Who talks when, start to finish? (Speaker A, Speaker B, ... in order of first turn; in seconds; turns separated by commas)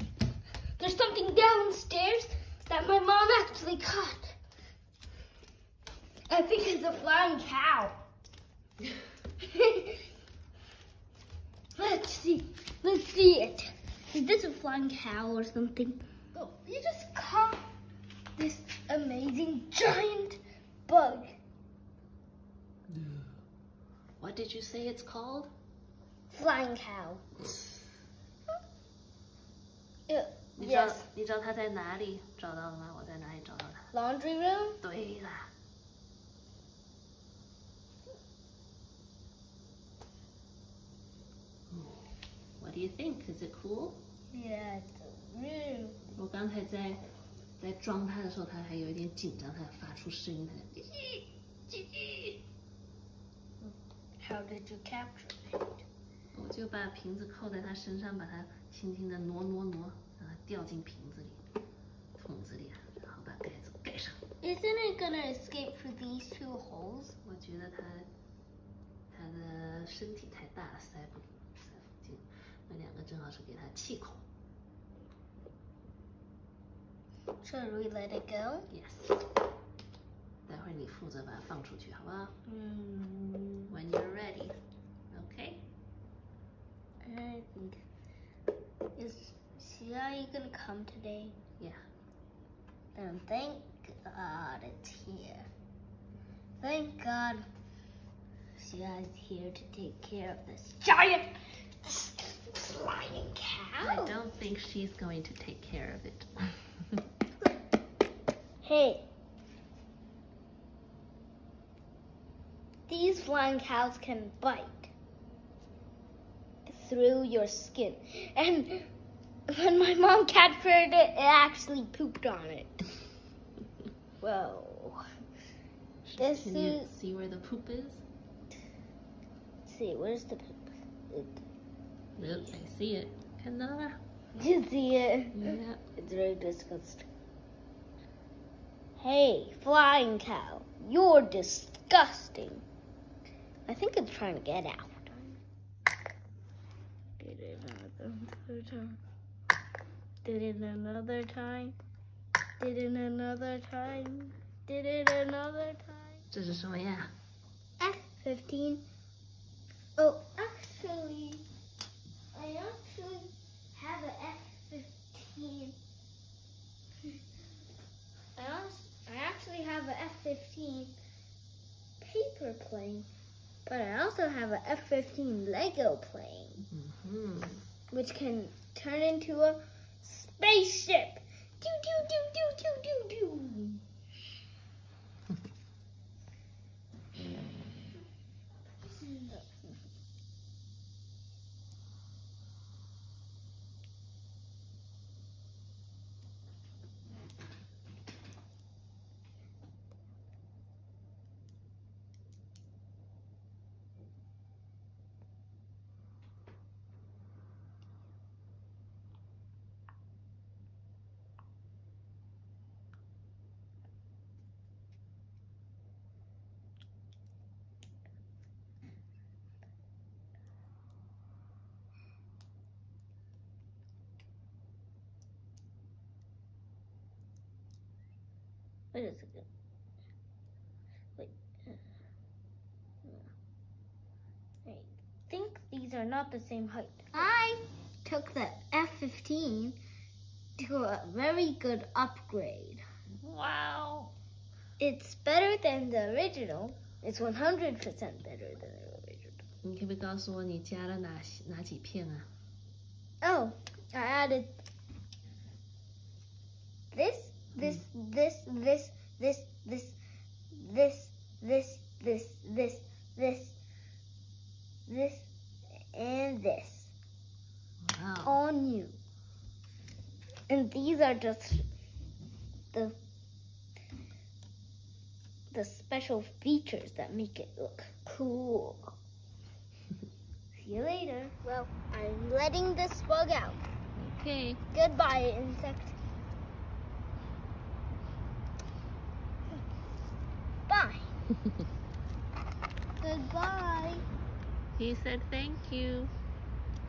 Speaker A: 0.8-4.3, Speaker A: 6.3-8.0, Speaker A: 9.4-10.1, Speaker A: 11.8-17.7, Speaker A: 18.4-21.3, Speaker B: 22.9-23.3, Speaker B: 24.2-25.5, Speaker A: 26.3-27.2, Speaker A: 30.1-31.1, Speaker B: 30.6-33.9, Speaker A: 33.9-34.8, Speaker B: 34.8-35.5, Speaker B: 41.7-42.1, Speaker B: 42.6-44.0, Speaker A: 44.3-46.1, Speaker B: 46.1-47.0, Speaker B: 47.6-52.4, Speaker A: 54.2-55.8, Speaker B: 56.3-61.4, Speaker B: 62.2-64.2, Speaker A: 64.4-67.2, Speaker B: 67.2-68.1, Speaker B: 69.1-74.2, Speaker A: 77.4-78.7, Speaker B: 78.7-79.2, Speaker B: 80.5-82.3, Speaker A: 82.5-83.8, Speaker B: 83.7-84.5, Speaker B: 85.1-85.7, Speaker A: 87.0-87.8, Speaker A: 89.0-91.4, Speaker A: 93.0-95.5, Speaker A: 96.6-97.5, Speaker A: 98.5-104.2, Speaker B: 103.8-107.0, Speaker A: 108.6-109.0, Speaker A: 112.9-114.9, Speaker A: 116.7-118.9, Speaker A: 119.5-122.9, Speaker A: 124.2-125.0, Speaker B: 126.0-128.0, Speaker A: 126.2-126.9, Speaker A: 129.7-131.4, Speaker B: 132.2-134.0, Speaker A: 134.3-137.1, Speaker B: 135.3-135.8, Speaker A: 139.0-142.7, Speaker A: 143.7-145.4, Speaker A: 147.2-149.0, Speaker A: 150.2-151.8, Speaker A: 152.6-156.2, Speaker B: 156.3-157.1, Speaker A: 157.8-158.8, Speaker A: 160.0-161.4, Speaker A: 162.3-165.8, Speaker A: 168.4-170.9, Speaker A: 172.0-173.1, Speaker A: 173.7-176.7, Speaker B: 176.7-177.6, Speaker A: 177.9-183.8, Speaker A: 188.9-189.7, Speaker A: 228.9-229.5, Speaker A: 231.2-231.8, Speaker A: 233.0-233.3, Speaker A: 234.7-239.8, Speaker A: 240.6-242.8, Speaker B: 243.2-244.1, Speaker A: 244.8-249.4, Speaker B: 249.6-252.3, Speaker A: 253.2-254.5, Speaker A: 256.9-260.0, Speaker A: 260.5-263.6, Speaker A: 264.9-265.3, Speaker A: 265.9-266.9, Speaker B: 267.8-268.4, Speaker A: 268.2-269.0, Speaker A: 270.5-271.6, Speaker A: 275.5-278.9, Speaker A: 280.5-283.6, Speaker B: 284.0-284.6, Speaker A: 284.7-286.0, Speaker A: 290.7-291.1, Speaker A: 293.0-294.0, Speaker B: 294.8-296.1